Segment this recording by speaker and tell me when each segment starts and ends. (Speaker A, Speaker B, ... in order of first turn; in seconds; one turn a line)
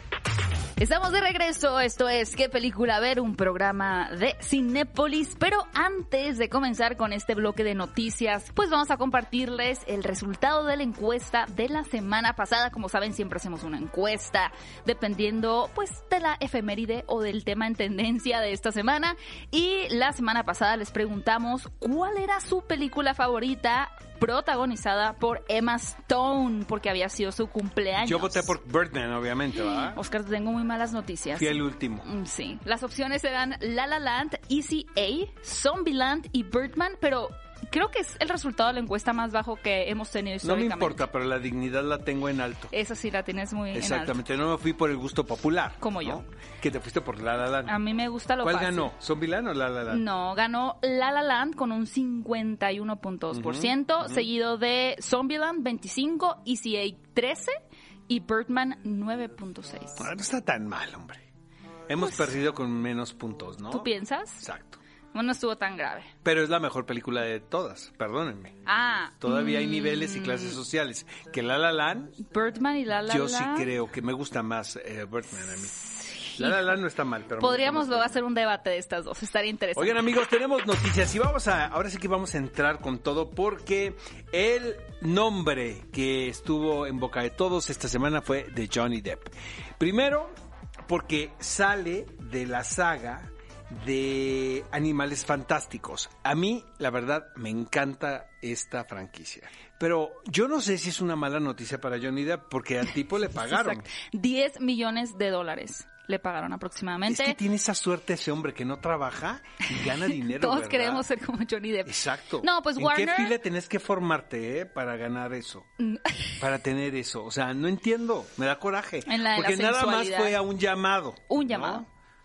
Speaker A: 0.8-28.6
Speaker B: 28.0-30.0
Speaker A: 29.7-41.1
Speaker B: 31.4-32.1
Speaker B: 40.4-42.7
Speaker A: 42.7-44.2
Speaker B: 43.7-47.8
Speaker A: 45.8-46.2
Speaker A: 47.7-48.9
Speaker B: 48.4-50.0
Speaker A: 49.9-57.5
Speaker B: 53.3-54.2
Speaker A: 58.1-60.1
Speaker B: 60.0-61.2
Speaker B: 61.9-64.8
Speaker A: 62.0-62.4
Speaker A: 63.7-64.5
Speaker A: 65.1-66.1
Speaker B: 66.2-68.6
Speaker A: 68.7-70.6
Speaker B: 69.2-72.2
Speaker A: 72.3-73.7
Speaker B: 73.1-75.8
Speaker A: 75.6-76.8
Speaker B: 76.3-78.2
Speaker A: 77.4-80.0
Speaker B: 79.8-90.3
Speaker B: 90.9-103.9
Speaker A: 103.4-107.4
Speaker B: 107.1-111.1
Speaker A: 109.7-113.4
Speaker B: 111.8-115.7
Speaker A: 115.9-116.3
Speaker B: 116.4-121.9
Speaker A: 119.1-120.4
Speaker A: 121.3-121.9